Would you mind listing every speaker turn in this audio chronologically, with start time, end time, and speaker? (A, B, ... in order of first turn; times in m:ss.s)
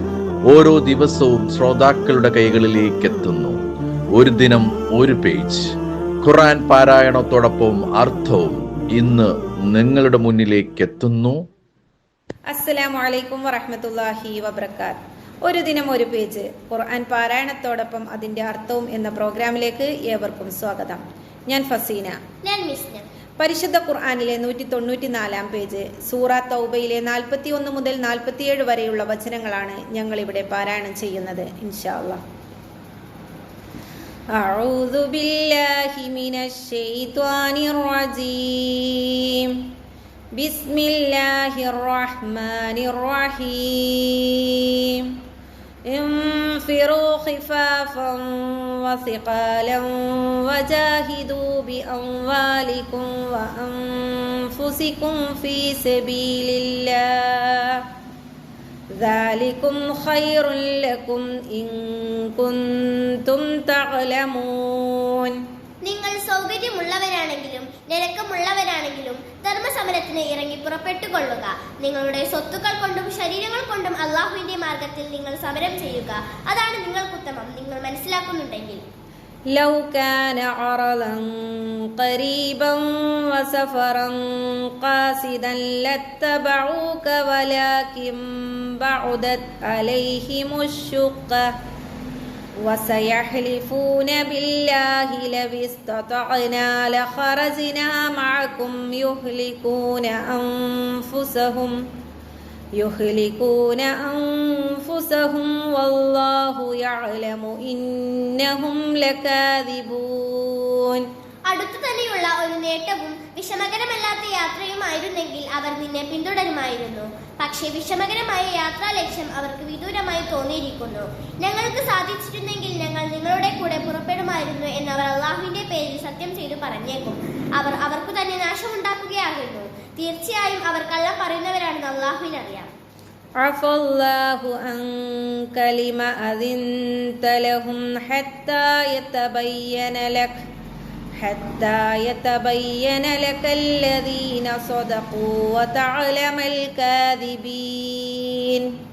0:00.5-0:03.6 A
0:04.2-0:05.6 A
0:06.2-0:11.4 A
0:12.5-0:22.2 B
0:22.4-0:23.0 C
0:23.4-0:32.2 B
0:34.3-0:39.7 B
0:40.4-0:45.2 B
0:45.9-0:57.8 B
0:59.0-1:05.4 B
1:05.8-1:18.8 C
1:19.5-1:31.5 B
1:32.6-1:41.8 B
1:42.8-1:51.0 B
1:51.5-2:12.7 C
2:13.4-2:20.3 B
2:21.2-2:28.7 B